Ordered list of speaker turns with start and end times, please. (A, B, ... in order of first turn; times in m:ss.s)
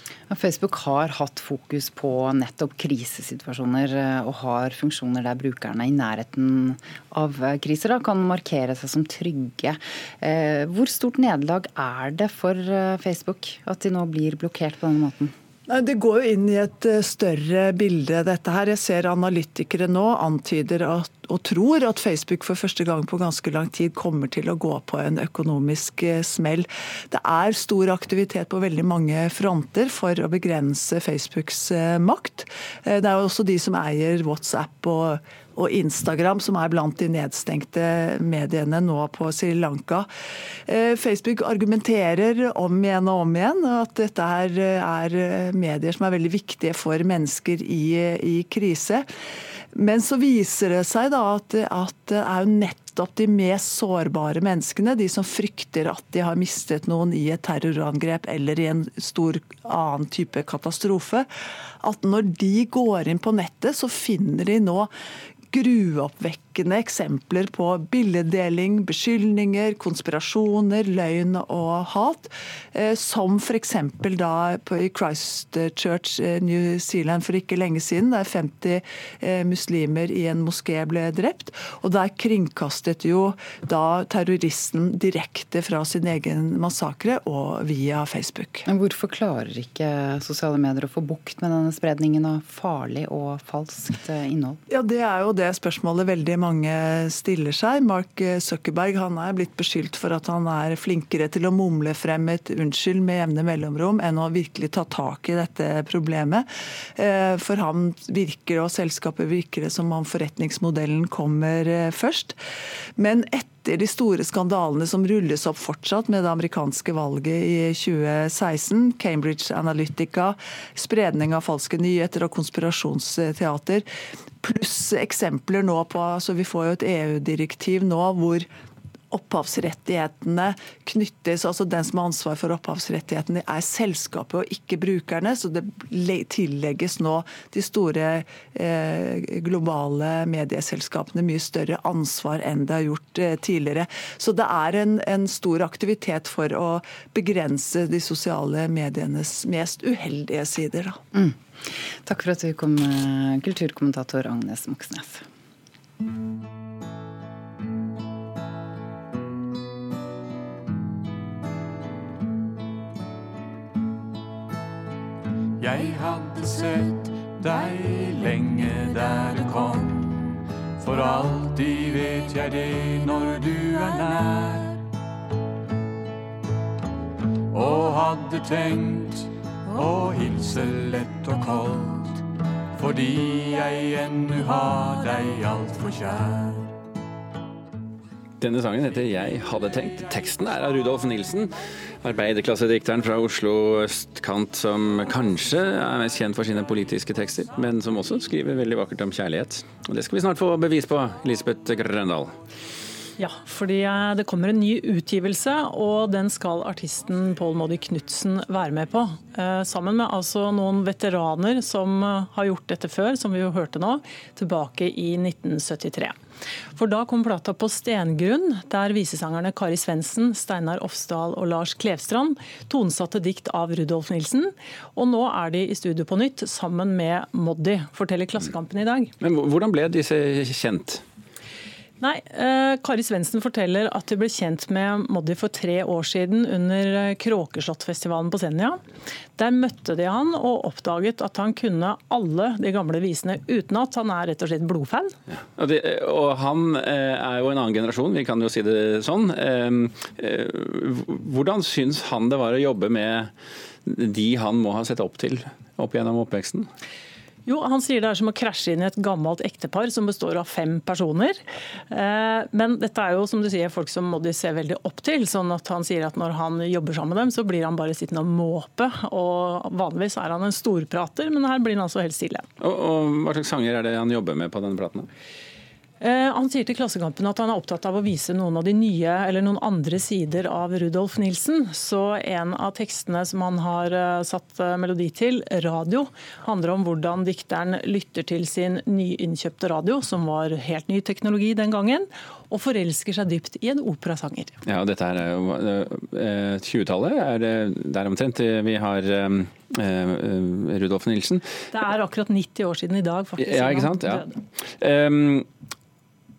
0:00.3-0:15.3 A
0:15.7-0:40.1 B
0:40.7-0:49.0 B
0:49.7-1:01.3 B
1:01.8-1:04.9 B
1:05.5-1:28.6 B
1:28.6-1:34.6 A
1:34.7-1:46.4 B
1:47.0-1:52.4 B
1:53.0-2:03.8 B
2:04.4-2:08.5 B
2:09.1-2:31.0 B
2:32.0-2:35.2 A
2:45.6-2:50.2 C
2:50.8-2:54.8 C
2:57.5-3:02.2 C
3:02.8-3:06.7 C
3:08.4-3:22.3 D
3:23.2-3:36.1 E
3:36.8-3:49.1 E
3:49.2-3:51.0 D
3:52.0-3:58.8 E
3:59.4-4:05.1 E
4:05.3-4:13.3 D
4:13.8-4:16.7 D
4:17.4-4:21.4 E
4:21.9-4:32.4 E
4:32.6-4:35.1 D
4:36.0-4:54.5 E
4:54.6-5:01.6 D
5:01.7-5:04.4 E
5:03.4-5:05.5 D